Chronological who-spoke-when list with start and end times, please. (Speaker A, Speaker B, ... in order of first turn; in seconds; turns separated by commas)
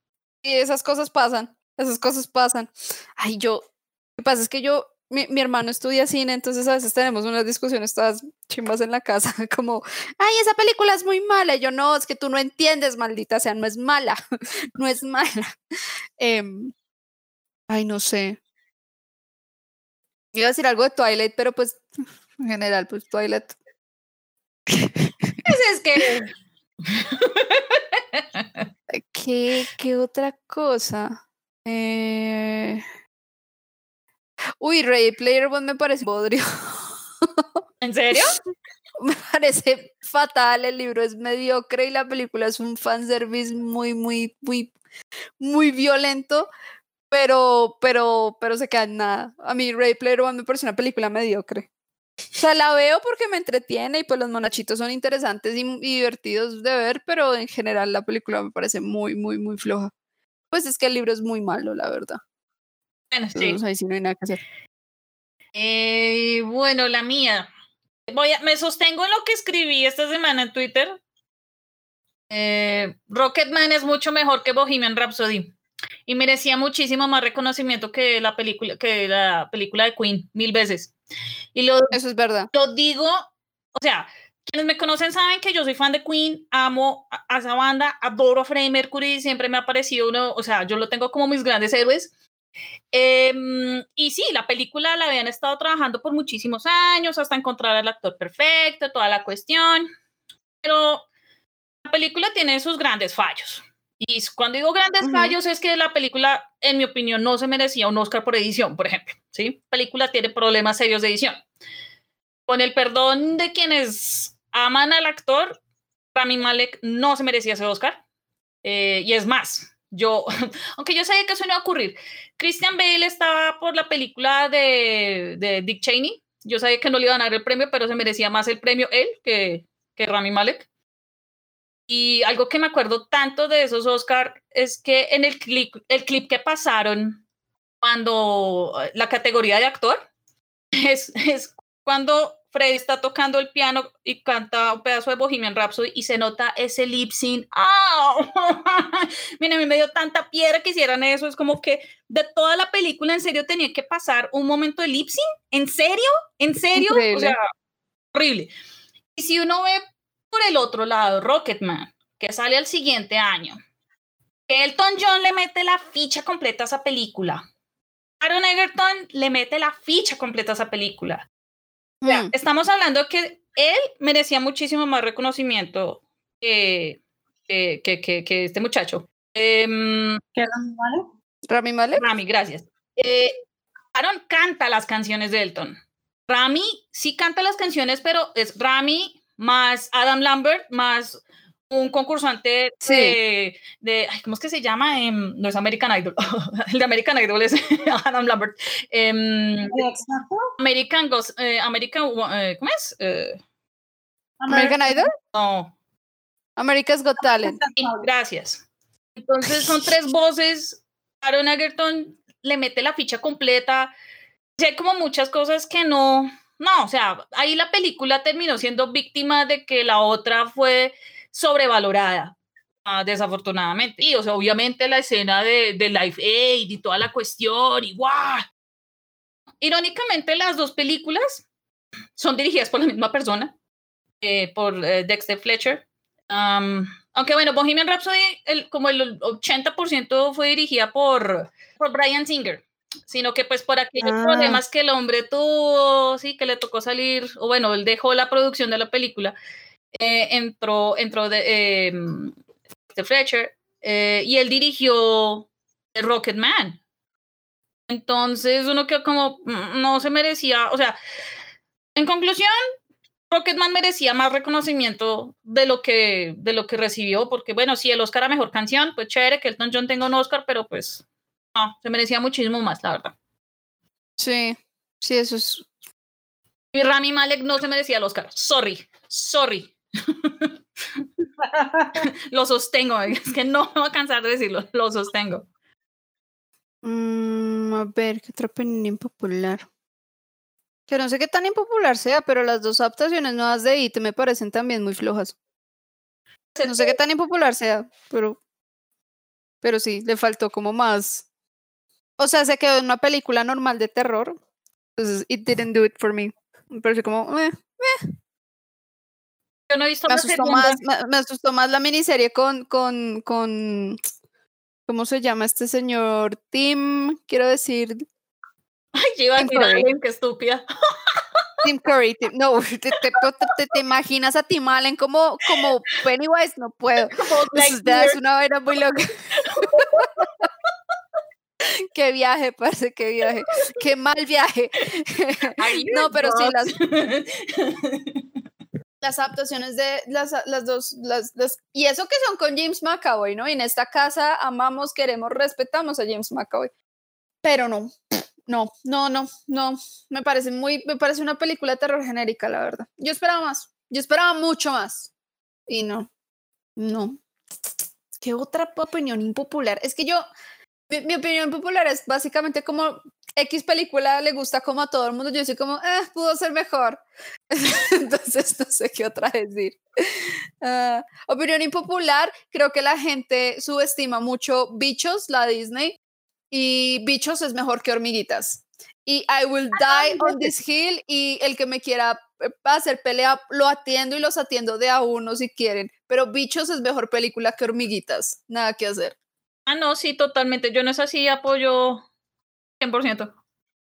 Speaker A: 0.4-3.6, Speaker A: 4.2-14.2, Speaker A: 14.8-15.6, Speaker A: 16.2-16.7, Speaker A: 17.7-18.4, Speaker A: 20.3-23.6, Speaker A: 24.7-25.4, Speaker B: 25.4-26.3, Speaker B: 26.9-28.6, Speaker A: 28.9-32.8, Speaker A: 34.6-37.5, Speaker B: 37.8-38.4, Speaker A: 39.0-44.7, Speaker A: 45.4-46.5, Speaker A: 47.1-51.7, Speaker A: 52.4-59.9, Speaker A: 60.5-62.2, Speaker B: 63.1-63.6, Speaker A: 63.4-64.4, Speaker B: 65.5-67.5, Speaker B: 68.1-71.0, Speaker B: 72.3-75.5, Speaker B: 76.1-80.9, Speaker B: 81.5-82.0, Speaker A: 81.9-82.5, Speaker B: 82.5-92.1, Speaker B: 92.9-99.9, Speaker B: 100.6-101.1, Speaker B: 101.8-111.4, Speaker A: 105.0-105.4, Speaker B: 112.5-115.6, Speaker B: 116.1-118.0, Speaker B: 118.6-130.7, Speaker B: 131.9-137.2, Speaker B: 137.8-140.1, Speaker B: 140.8-157.4, Speaker A: 156.8-157.4, Speaker B: 158.1-158.5, Speaker B: 159.2-163.6, Speaker B: 164.5-167.4, Speaker B: 168.2-171.3, Speaker A: 172.0-172.3, Speaker B: 172.1-180.2, Speaker C: 180.4-181.1, Speaker A: 181.5-182.0, Speaker B: 182.0-183.3, Speaker B: 183.9-199.8, Speaker A: 192.8-193.2, Speaker C: 199.7-200.5, Speaker B: 200.6-203.4, Speaker C: 204.4-205.1, Speaker A: 204.5-205.1, Speaker B: 205.3-205.7, Speaker A: 206.6-207.6, Speaker C: 207.2-208.1, Speaker B: 207.8-208.7, Speaker B: 209.2-213.9, Speaker B: 214.6-228.4, Speaker B: 229.6-231.5, Speaker B: 232.2-233.5, Speaker B: 234.2-249.3, Speaker A: 244.0-244.6, Speaker B: 250.0-252.4, Speaker B: 252.9-256.8, Speaker B: 257.9-261.0, Speaker B: 261.9-262.6, Speaker B: 263.3-271.0, Speaker B: 271.6-273.1, Speaker A: 274.2-275.7, Speaker B: 276.7-281.0, Speaker C: 281.4-282.0, Speaker B: 282.0-285.5, Speaker A: 286.8-289.7, Speaker A: 290.9-295.4, Speaker B: 296.6-296.9, Speaker A: 296.6-298.4, Speaker A: 299.6-301.3, Speaker A: 302.2-304.4, Speaker A: 305.0-308.1, Speaker B: 309.7-310.8, Speaker A: 310.1-314.0, Speaker A: 314.9-318.1, Speaker B: 318.9-321.2, Speaker A: 319.4-319.9, Speaker A: 321.6-330.1, Speaker B: 327.1-328.2, Speaker B: 329.4-330.5, Speaker A: 331.9-336.8, Speaker B: 335.6-338.2, Speaker A: 339.0-346.7, Speaker A: 347.4-355.1, Speaker A: 355.7-356.1, Speaker A: 356.8-357.2, Speaker A: 358.2-360.2, Speaker A: 360.9-376.0, Speaker A: 376.5-389.1, Speaker B: 379.8-380.5, Speaker B: 389.7-392.1, Speaker B: 392.8-393.3